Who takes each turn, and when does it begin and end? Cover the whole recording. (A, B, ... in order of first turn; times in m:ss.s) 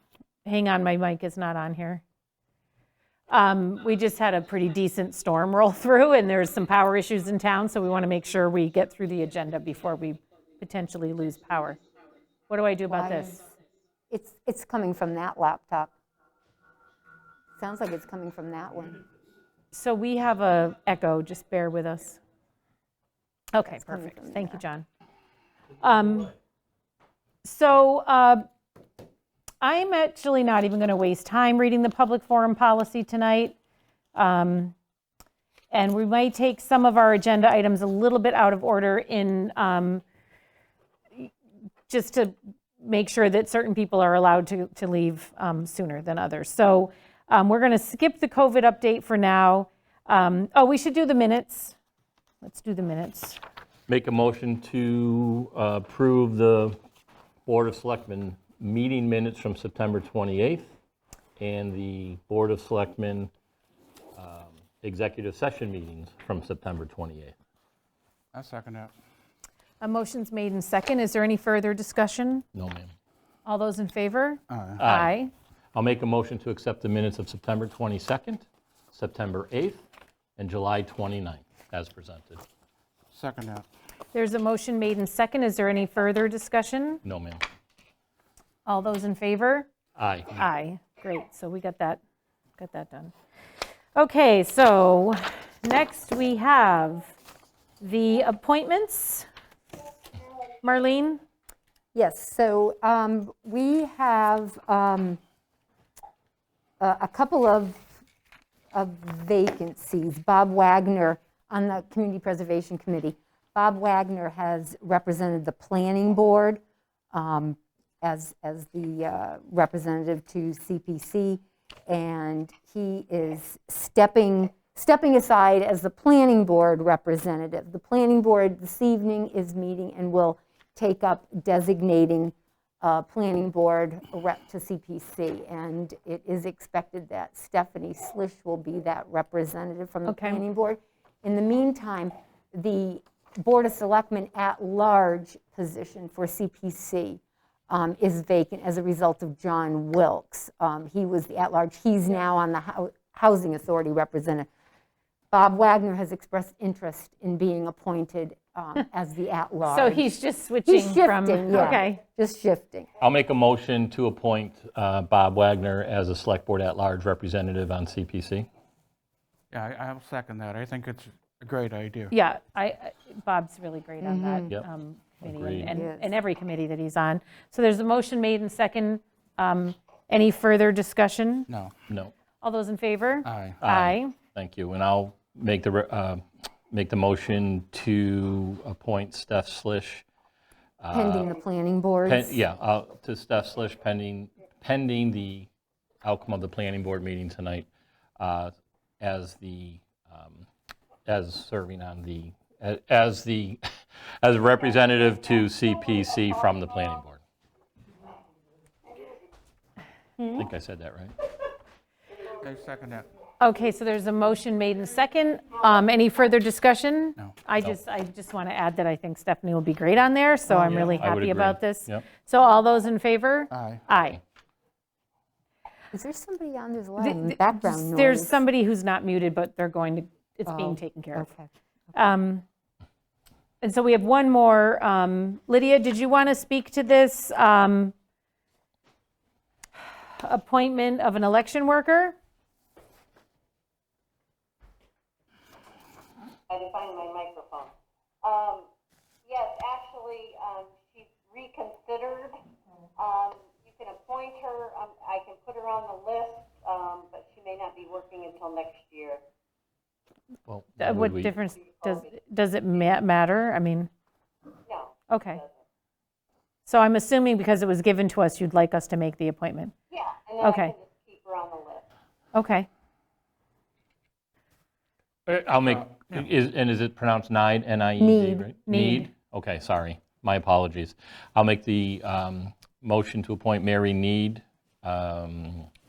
0:00.4-0:02.0 A
0:03.3-0:11.8 A
0:12.5-0:13.5 A
0:12.9-0:13.4 B
0:14.1-0:15.9 B
0:17.6-0:19.0 B
0:19.7-0:22.2 A
0:23.5-0:24.9 A
0:23.7-0:24.6 B
0:25.8-0:26.3 A
0:27.4-0:28.4 A
0:29.6-0:33.6 A
0:34.2-0:34.8 A
0:35.7-0:40.0 A
0:41.9-0:51.8 A
0:52.4-0:53.4 A
0:53.9-0:56.8 C
0:57.5-1:00.7 C
1:01.4-1:03.3 C
1:04.2-1:07.3 C
1:08.3-1:08.9 D
1:09.8-1:12.4 A
1:12.5-1:12.9 C
1:13.5-1:15.3 A
1:14.5-1:14.8 D
1:14.8-1:15.2 C
1:15.7-1:19.8 C
1:20.4-1:22.4 C
1:23.1-1:23.7 D
1:24.1-1:27.0 A
1:27.0-1:27.4 C
1:28.7-1:29.7 A
1:30.0-1:30.4 C
1:30.4-1:32.0 A
1:32.6-1:33.1 A
1:34.0-1:37.1 A
1:37.8-1:39.3 A
1:40.6-1:41.2 A
1:41.9-1:45.2 B
1:46.8-1:48.0 B
1:48.7-1:56.6 B
1:57.1-2:34.5 B
2:20.1-2:20.4 A
2:35.3-2:40.1 B
2:39.7-2:42.0 A
2:40.6-2:42.9 B
2:43.0-2:48.5 C
2:49.5-2:52.1 D
2:52.1-3:01.5 A
2:54.0-2:54.5 B
2:55.2-2:55.8 C
2:55.7-2:56.1 B
3:01.9-3:02.1 C
3:02.4-3:04.1 A
3:03.3-3:03.6 D
3:03.6-3:10.0 C
3:10.8-3:11.3 C
3:10.9-3:12.4 B
3:12.1-3:15.5 C
3:16.0-3:17.7 C
3:18.2-3:20.5 C
3:21.1-3:23.6 C
3:24.2-3:27.2 C
3:30.3-3:31.1 C
3:32.4-3:33.1 D
3:33.4-3:44.2 A
3:40.6-3:42.1 C
3:43.5-3:43.8 D
3:45.9-3:48.4 B
3:47.0-3:51.3 A
3:50.5-3:51.5 B
3:51.9-3:52.4 A
3:53.6-3:57.9 A
4:00.1-4:02.2 A
4:06.5-4:08.7 E
4:09.2-4:12.4 E
4:13.0-4:19.2 E
4:20.5-4:21.4 C
4:20.8-4:23.9 A
4:24.7-4:25.5 E
4:25.1-4:25.4 A
4:26.7-4:29.7 A
4:29.9-4:31.8 E
4:30.4-4:30.8 A
4:32.3-4:32.7 A
4:35.3-4:45.7 C
4:38.0-4:38.5 B
4:38.7-4:39.1 A